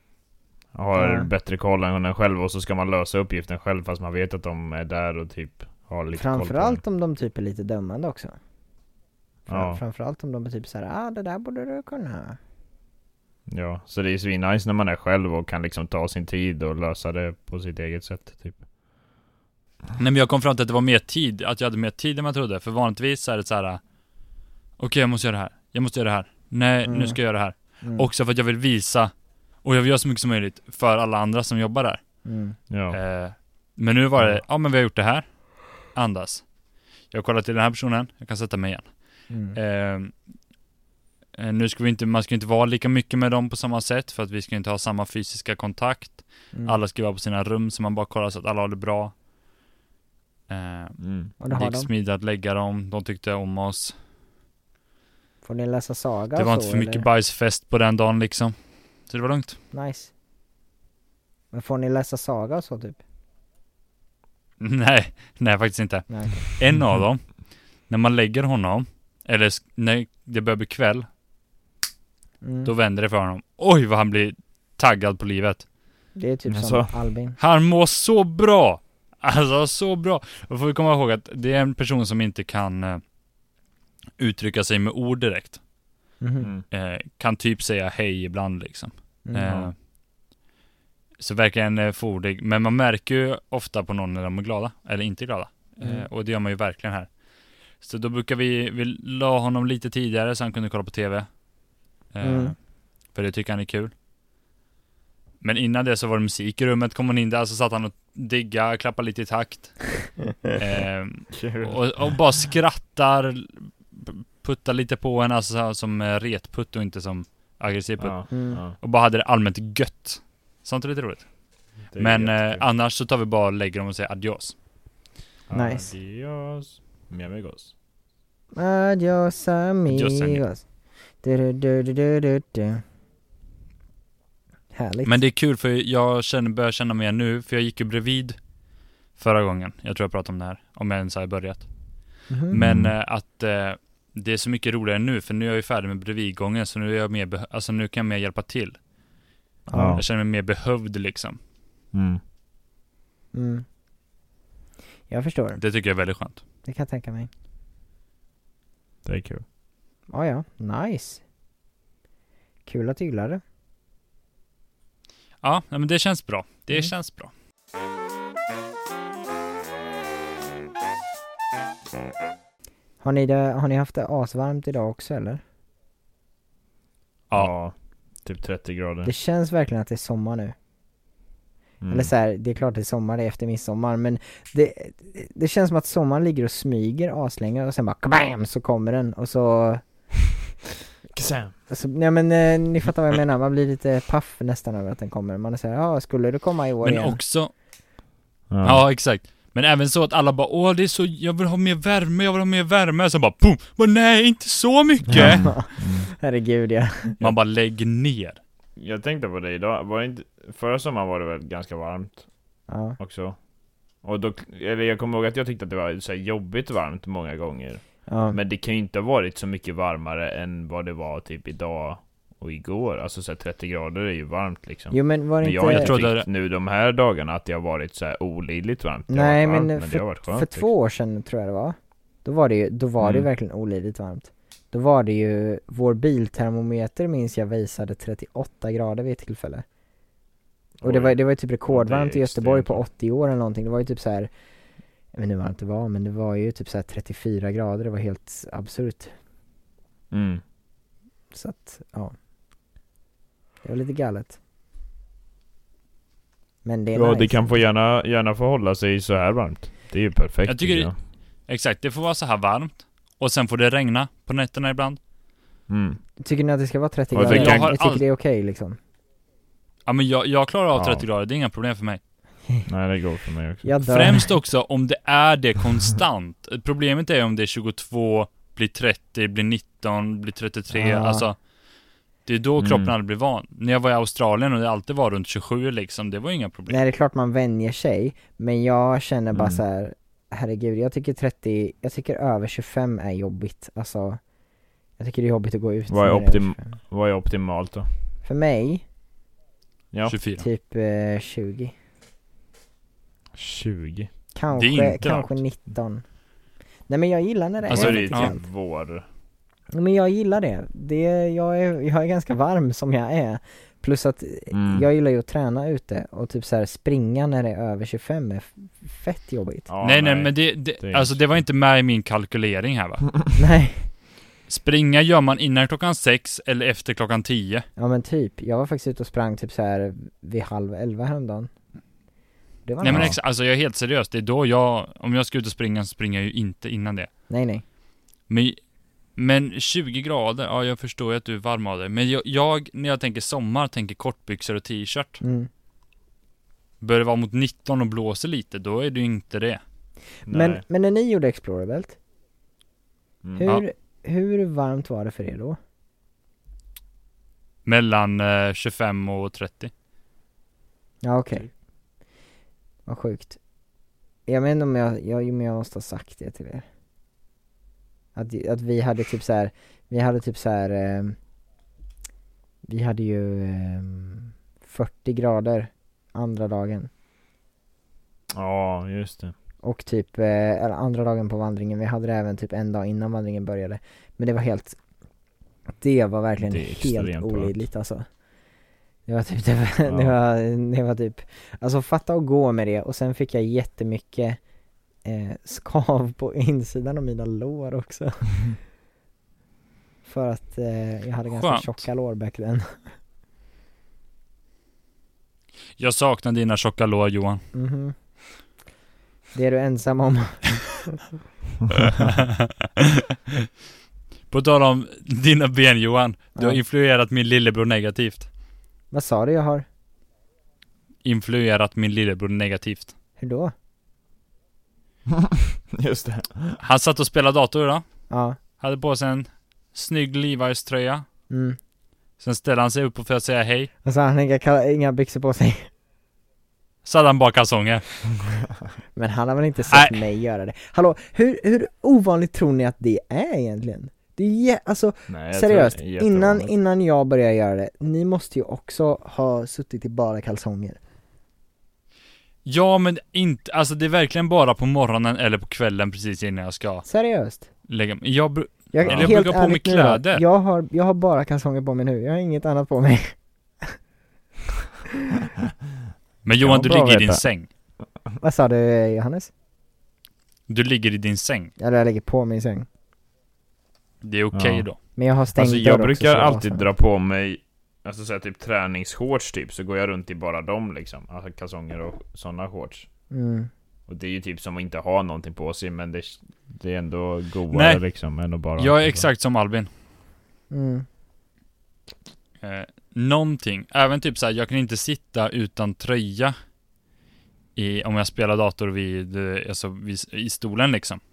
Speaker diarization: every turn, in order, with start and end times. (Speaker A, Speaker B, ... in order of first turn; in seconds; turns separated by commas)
Speaker A: 0.7-6.8, Speaker B: 0.9-1.3, Speaker B: 6.1-8.3, Speaker B: 9.5-12.4, Speaker A: 9.5-9.8, Speaker A: 13.5-18.6, Speaker C: 20.0-23.8, Speaker C: 24.8-29.1, Speaker B: 26.8-27.2, Speaker B: 27.8-28.1, Speaker C: 29.6-32.0, Speaker B: 32.2-32.5, Speaker A: 32.7-33.0, Speaker C: 32.9-35.2, Speaker C: 35.8-36.4, Speaker C: 37.1-38.9, Speaker B: 39.3-39.6, Speaker C: 39.5-40.1, Speaker C: 41.4-49.1, Speaker C: 50.5-53.9, Speaker A: 51.0-51.3, Speaker B: 51.4-51.9, Speaker B: 55.4-57.0, Speaker C: 56.4-58.5, Speaker C: 59.1-59.6, Speaker B: 59.7-60.1, Speaker B: 61.5-63.0, Speaker C: 64.6-67.3, Speaker B: 66.1-66.3, Speaker C: 67.9-71.0, Speaker B: 72.4-72.7, Speaker C: 72.6-75.6, Speaker B: 76.1-77.4, Speaker A: 76.5-76.9, Speaker C: 77.4-83.0, Speaker C: 84.2-85.6, Speaker B: 86.2-86.5, Speaker A: 86.4-86.7, Speaker C: 86.7-89.7, Speaker B: 89.2-89.5, Speaker A: 89.4-89.7, Speaker C: 91.2-97.1, Speaker B: 95.8-96.0, Speaker C: 97.8-101.3, Speaker C: 102.1-102.5, Speaker B: 102.2-102.5, Speaker C: 103.1-103.9, Speaker C: 105.4-110.0, Speaker C: 110.5-121.3, Speaker A: 111.3-112.1, Speaker A: 118.0-118.8, Speaker B: 118.3-118.6, Speaker A: 121.9-122.6, Speaker C: 121.9-124.5, Speaker A: 125.5-127.7, Speaker B: 125.5-125.9, Speaker B: 128.5-130.6, Speaker C: 129.9-130.4, Speaker B: 131.2-132.8, Speaker B: 134.7-135.1, Speaker C: 135.0-138.3, Speaker C: 139.2-141.7, Speaker B: 142.3-142.6, Speaker C: 142.5-148.8, Speaker A: 142.5-142.9, Speaker B: 149.7-150.0, Speaker A: 149.7-150.0, Speaker C: 149.9-151.4, Speaker A: 151.9-152.2, Speaker B: 153.3-153.6, Speaker B: 155.1-155.6, Speaker C: 155.6-156.4, Speaker B: 156.7-157.3, Speaker A: 159.0-159.4, Speaker B: 160.1-161.2, Speaker B: 162.7-163.4, Speaker C: 165.4-167.3, Speaker B: 173.0-175.4, Speaker A: 177.3-179.1, Speaker B: 179.0-180.5, Speaker A: 181.8-182.1, Speaker B: 181.9-189.8, Speaker A: 191.1-191.5, Speaker B: 191.7-197.2, Speaker C: 196.8-197.5, Speaker A: 198.5-198.8, Speaker C: 198.6-205.6, Speaker B: 205.1-207.3, Speaker A: 205.1-206.1, Speaker C: 207.2-208.4, Speaker A: 208.8-212.2, Speaker B: 212.7-213.0, Speaker A: 213.0-213.4, Speaker A: 214.0-230.7, Speaker B: 218.1-218.4, Speaker B: 224.9-225.9, Speaker C: 225.7-226.2, Speaker B: 229.1-239.6, Speaker A: 233.0-233.3, Speaker A: 240.8-241.2, Speaker B: 240.8-244.3, Speaker A: 241.7-242.8, Speaker B: 245.1-249.1, Speaker A: 250.1-250.4, Speaker B: 251.3-252.1, Speaker B: 253.6-254.4, Speaker B: 256.6-257.5, Speaker A: 256.9-260.9, Speaker C: 260.4-260.9, Speaker C: 261.5-265.0, Speaker A: 265.7-266.0, Speaker B: 266.2-268.8, Speaker A: 267.1-267.7, Speaker C: 267.2-268.0, Speaker C: 269.9-272.0, Speaker A: 270.7-271.1, Speaker A: 272.7-273.7, Speaker B: 273.6-274.3, Speaker C: 273.9-281.4, Speaker B: 280.7-281.2, Speaker C: 282.2-286.8, Speaker A: 282.6-282.9, Speaker B: 286.7-294.2, Speaker A: 289.3-289.6, Speaker B: 295.0-296.8, Speaker A: 295.9-297.9, Speaker B: 298.2-298.8, Speaker C: 300.1-300.4, Speaker B: 300.4-301.7, Speaker A: 303.3-304.1, Speaker B: 304.3-306.0, Speaker C: 304.5-305.4, Speaker B: 306.9-308.4, Speaker A: 307.7-309.0, Speaker C: 307.7-308.3, Speaker B: 309.7-319.7, Speaker A: 314.5-314.8, Speaker A: 319.7-321.2, Speaker C: 319.8-323.2, Speaker B: 323.4-323.9, Speaker C: 324.5-327.6, Speaker B: 327.8-331.5, Speaker B: 332.6-333.1, Speaker C: 332.8-337.1, Speaker A: 332.9-333.1, Speaker B: 337.3-337.6, Speaker C: 338.3-338.6, Speaker C: 339.1-345.2, Speaker B: 345.2-345.5, Speaker C: 346.8-349.6, Speaker A: 350.3-350.6, Speaker B: 350.3-352.0, Speaker B: 353.4-355.6, Speaker C: 357.6-359.7, Speaker B: 361.0-361.5, Speaker B: 362.9-363.4, Speaker B: 364.3-366.6, Speaker B: 368.1-371.1, Speaker B: 372.6-376.9, Speaker A: 378.3-379.3, Speaker B: 379.6-384.8, Speaker B: 385.8-388.0, Speaker A: 386.4-387.5, Speaker B: 389.1-394.4, Speaker A: 389.9-390.1, Speaker B: 395.0-398.4, Speaker B: 400.1-402.8, Speaker C: 401.3-401.8, Speaker C: 405.8-407.4, Speaker B: 407.5-407.9, Speaker B: 409.3-411.0, Speaker C: 411.8-413.4, Speaker C: 414.3-418.3, Speaker B: 418.9-419.6, Speaker C: 421.0-422.9, Speaker B: 423.2-423.5, Speaker A: 425.1-426.6, Speaker C: 426.6-427.8, Speaker B: 428.1-428.4, Speaker C: 428.6-431.1, Speaker B: 431.3-431.6, Speaker C: 432.2-433.7, Speaker B: 433.8-435.7, Speaker C: 436.8-437.9, Speaker B: 438.9-450.8, Speaker A: 445.1-446.5, Speaker C: 452.4-456.8, Speaker B: 456.9-457.4, Speaker C: 457.7-460.2, Speaker B: 458.7-463.8, Speaker A: 458.8-459.2, Speaker C: 466.2-467.5, Speaker B: 466.5-467.0, Speaker A: 466.5-467.2, Speaker B: 468.2-469.3, Speaker C: 470.5-471.5, Speaker B: 471.6-472.7, Speaker C: 474.0-474.8, Speaker A: 474.3-474.6, Speaker B: 475.0-476.6, Speaker A: 475.3-482.9, Speaker B: 483.1-483.5, Speaker A: 483.9-489.0, Speaker C: 487.5-487.8, Speaker C: 488.6-489.7, Speaker B: 490.5-490.8, Speaker C: 492.4-496.3, Speaker C: 497.6-501.0